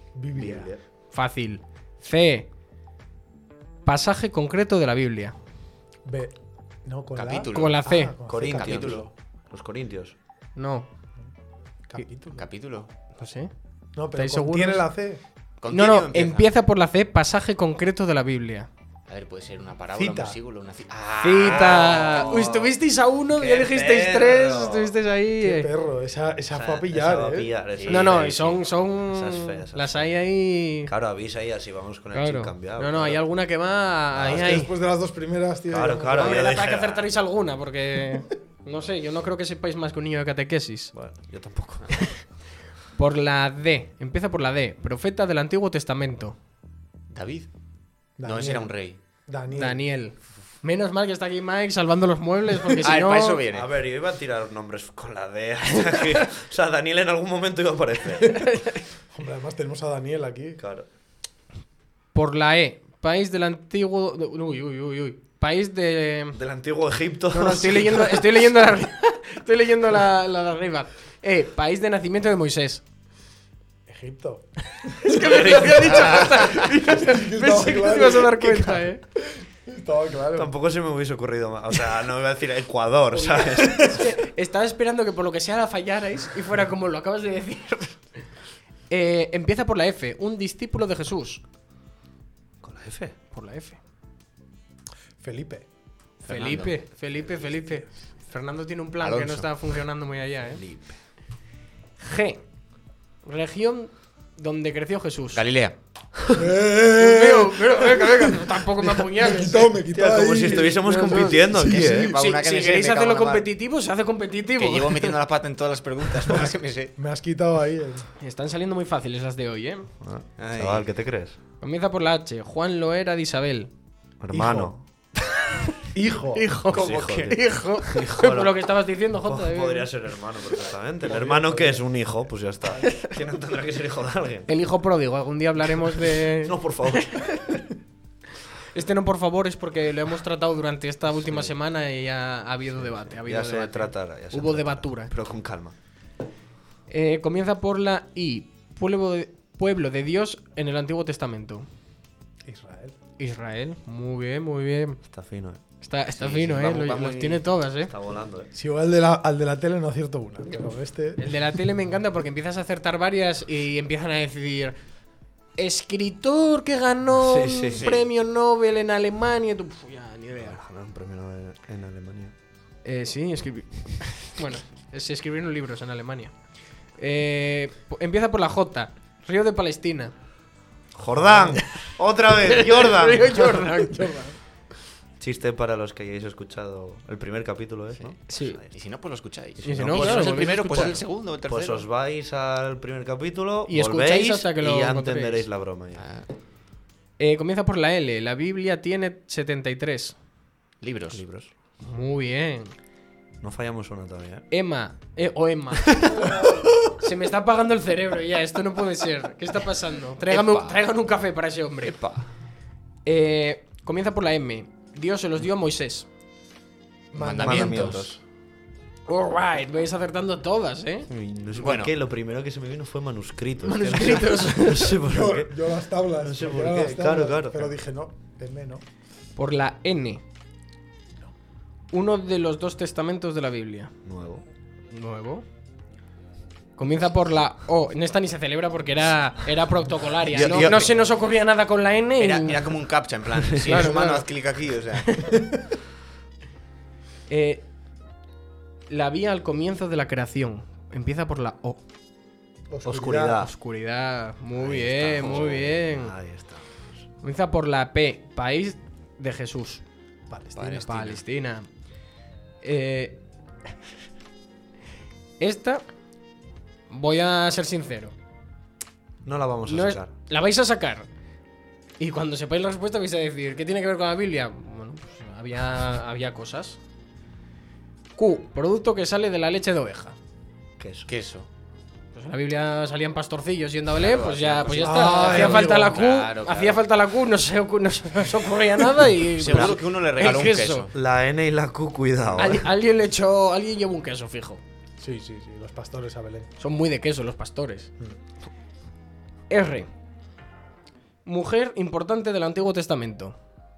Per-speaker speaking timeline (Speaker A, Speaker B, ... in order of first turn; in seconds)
Speaker A: 0.1-0.7, 6.0-9.1, 11.9-12.5, 13.9-15.2, 19.9-20.4, 25.4-27.5, 34.2-36.5, 48.2-48.8, 49.3-49.8, 59.1-60.6, 73.9-75.7, 76.5-80.5, 95.2-95.7, 106.3-112.0, 116.3-118.1, 124.3-124.7, 125.9-126.5, 131.1-131.8, 152.4-153.0, 158.5-161.3, 181.2-181.6, 183.9-184.3, 217.1-218.1, 225.0-228.8, 245.3-245.6, 252.7-253.4, 260.3-260.9, 284.8-286.0, 295.0-296.5
Speaker B: 0.3-0.8, 8.3-10.2, 21.6-22.5, 23.4-24.9, 26.5-30.1, 30.9-33.2, 34.1-34.6, 35.7-37.1, 40.9-41.9, 53.5-58.5, 60.6-60.9, 66.3-68.2, 80.3-84.1, 92.6-93.2, 109.9-112.1, 120.0-121.4, 124.2-124.8, 126.7-128.6, 129.1-134.5, 136.4-137.4, 141.3-141.5, 143.1-145.8, 155.0-155.6, 157.9-158.5, 167.2-167.8, 170.4-172.3, 180.9-183.7, 185.2-188.7, 189.6-196.1, 201.1-201.5, 203.4-204.5, 217.4-218.2, 221.1-225.6, 226.2-227.7, 234.1-234.4, 240.3-240.9, 252.8-253.5, 254.6-257.0, 269.2-270.1, 280.8-281.1, 289.4-292.7
Speaker C: 1.1-2.5, 3.9-5.4, 7.5-8.2, 10.6-10.9, 13.2-13.5, 14.2-14.8, 15.7-18.7, 21.2-25.7, 27.9-30.9, 32.1-34.7, 36.2-40.9, 41.9-42.2, 43.0-46.4, 49.5-53.4, 62.1-66.4, 67.3-72.8, 74.9-79.0, 83.1-88.0, 88.9-91.4, 93.3-93.8, 96.2-100.6, 102.0-102.4, 103.2-105.4, 107.0-109.7, 111.1-115.2, 118.2-119.9, 121.6-123.7, 126.3-129.9, 134.5-137.6, 138.7-145.1, 146.9-151.7, 153.2-155.0, 155.8-157.9, 161.2-164.8, 165.6-170.6, 172.8-176.3, 177.0-180.1, 182.4-184.3, 188.3-188.6, 189.6-191.0, 193.7-195.5, 197.2-200.2, 201.8-202.7, 204.5-212.0, 213.1-216.1, 219.1-221.1, 223.6-225.0, 229.4-230.2, 231.9-233.9, 234.9-235.4, 236.8-242.8, 243.7-244.3, 245.1-245.3, 247.3-247.7, 248.9-251.8, 253.4-256.1, 257.2-259.8, 260.6-261.7, 262.6-263.2, 265.4-265.8, 266.9-268.1, 269.7-271.1, 272.0-276.8, 278.2-280.2, 282.1-290.9, 292.4-294.6, 296.6-297.9, 299.5-299.9, 301.2-303.4
Speaker D: 7.2-7.8, 8.6-9.0, 12.4-12.9, 15.6-16.5, 19.1-22.6, 27.8-28.2, 47.1-47.5, 48.2-49.0, 52.8-53.7, 75.3-76.6, 96.3-96.8, 99.0-99.5, 105.3-105.8, 111.6-113.5, 114.6-116.9, 120.4-120.9, 156.1-157.4, 167.7-168.1, 188.7-191.9, 195.9-196.3, 200.8-201.2, 210.3-210.8, 211.8-212.3, 217.2-218.2, 221.6-221.9, 240.3-240.9, 242.2-245.3, 255.2-255.5, 260.6-261.2, 281.1-281.5, 283.9-286.8, 289.4-290.9